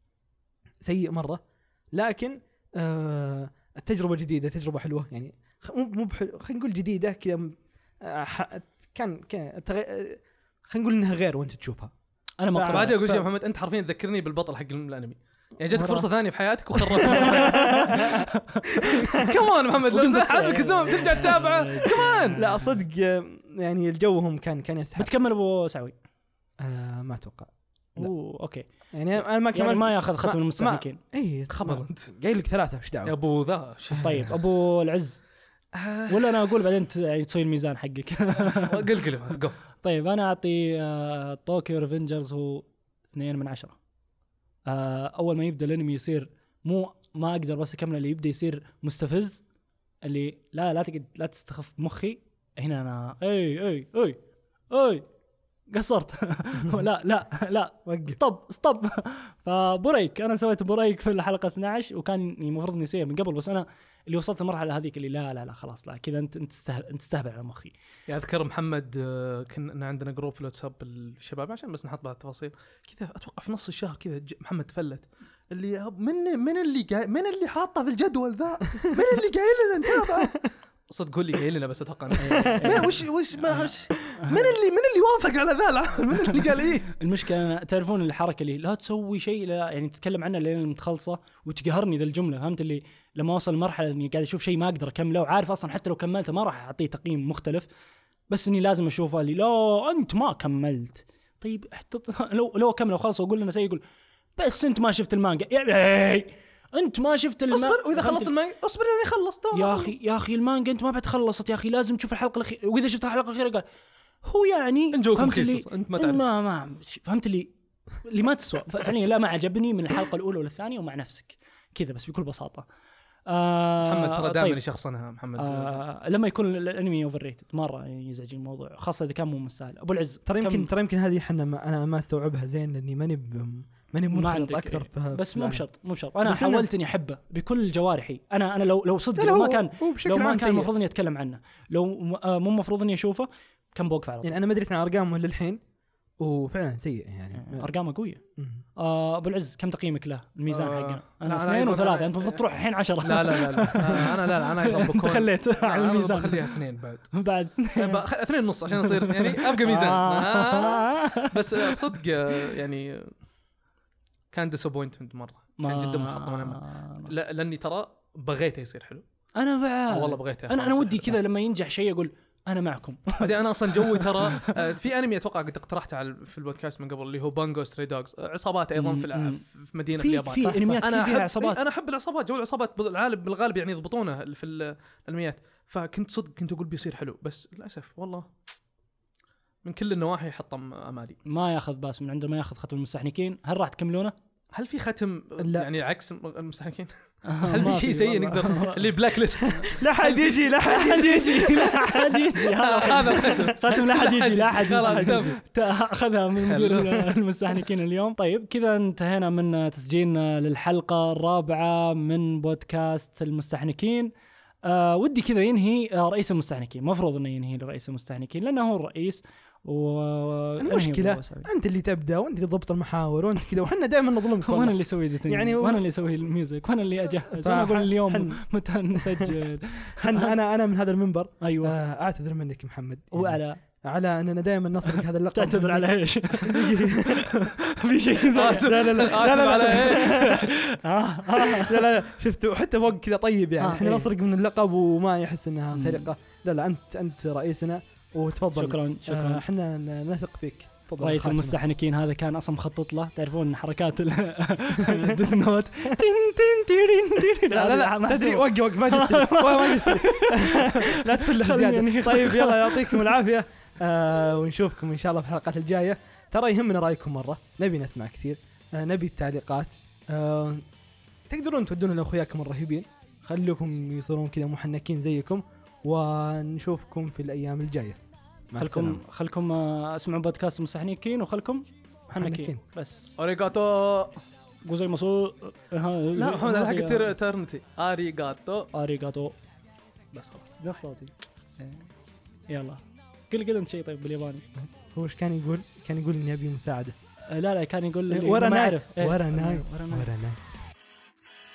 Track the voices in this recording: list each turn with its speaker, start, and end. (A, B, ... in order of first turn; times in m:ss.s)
0:00.8-0:01.4 A
0:01.9-0:11.9 A
0:12.4-0:13.1 B
0:12.5-0:13.2 A
0:12.7-0:17.9 C
0:15.8-0:16.1 A
0:17.0-0:18.2 A
0:17.0-0:18.6 B
0:18.8-0:19.4 A
0:18.9-0:22.4 C
0:19.9-0:22.8 B
0:22.4-0:25.1 A
0:25.0-0:25.9 B
0:26.6-0:28.1 A
0:28.0-0:28.7 B
0:28.9-0:33.1 A
0:29.5-0:31.0 B
0:31.5-0:32.1 C
0:33.0-0:34.1 C
0:33.9-0:34.4 A
0:34.0-0:35.2 B
0:35.7-0:36.4 C
0:36.1-0:38.8 B
0:38.4-0:39.5 C
0:39.8-0:43.8 B
0:44.7-0:49.4 B
0:50.0-0:54.2 B
0:54.7-0:55.0 B
0:55.7-1:07.7 B
0:57.8-0:58.2 A
1:08.1-1:26.9 C
1:19.9-1:20.4 A
1:22.2-1:24.5 B
1:22.3-1:22.9 A
1:26.9-1:37.7 B
1:38.3-1:43.8 B
1:44.4-1:48.3 B
1:47.5-1:50.0 C
1:49.5-1:53.6 B
1:54.2-1:57.5 B
1:54.9-1:56.2 C
1:58.0-2:02.6 B
2:03.3-2:04.6 B
2:03.8-2:05.8 C
2:05.4-2:10.7 B
2:10.2-2:15.6 A
2:14.1-2:24.4 B
2:16.2-2:16.7 A
2:19.2-2:20.7 A
2:24.2-2:25.6 A
2:26.2-2:27.7 A
2:27.4-2:28.2 B
2:28.4-2:28.6 A
2:28.8-2:36.5 B
2:30.5-2:32.4 C
2:33.0-2:37.1 C
2:37.1-2:38.0 B
2:37.7-2:43.1 C
2:38.8-2:42.5 B
2:44.3-2:49.0 C
2:45.6-2:47.1 B
2:49.4-2:54.5 B
2:49.9-2:51.2 C
2:53.2-3:08.3 C
2:58.7-2:59.4 B
3:00.0-3:01.6 B
3:00.4-3:00.7 A
3:09.6-3:11.2 C
3:11.2-3:14.1 B
3:14.5-3:16.9 C
3:15.4-3:15.7 A
3:17.2-3:18.9 B
3:17.4-3:19.8 C
3:19.4-3:22.2 A
3:20.0-3:34.1 B
3:22.3-3:25.4 C
3:23.1-3:23.4 A
3:24.8-3:25.3 A
3:26.3-3:27.1 C
3:34.6-3:41.5 B
3:40.6-3:45.8 A
3:44.4-3:50.3 B
3:47.3-3:48.4 A
3:48.9-3:49.3 A
3:50.0-3:57.3 A
3:51.4-3:51.7 B
3:53.1-3:53.6 B
3:54.9-4:01.9 B
3:58.3-4:00.3 C
3:58.5-4:00.5 A
4:01.3-4:11.6 A
4:03.6-4:04.1 B
4:05.7-4:06.1 B
4:08.5-4:09.4 B
4:11.0-4:23.2 B
4:14.8-4:15.2 A
4:17.5-4:30.6 A
4:31.3-4:38.0 A
4:38.5-4:39.0 A
4:38.6-4:43.1 B
4:42.2-4:42.6 A
4:43.2-4:44.2 C
4:44.6-4:47.1 B
4:46.2-4:48.7 C
4:48.7-4:49.3 B
4:50.1-4:50.6 C
4:50.6-4:51.8 B
4:52.5-4:54.4 B
4:54.6-4:56.9 A
4:57.3-5:00.1 B
4:58.1-5:00.4 A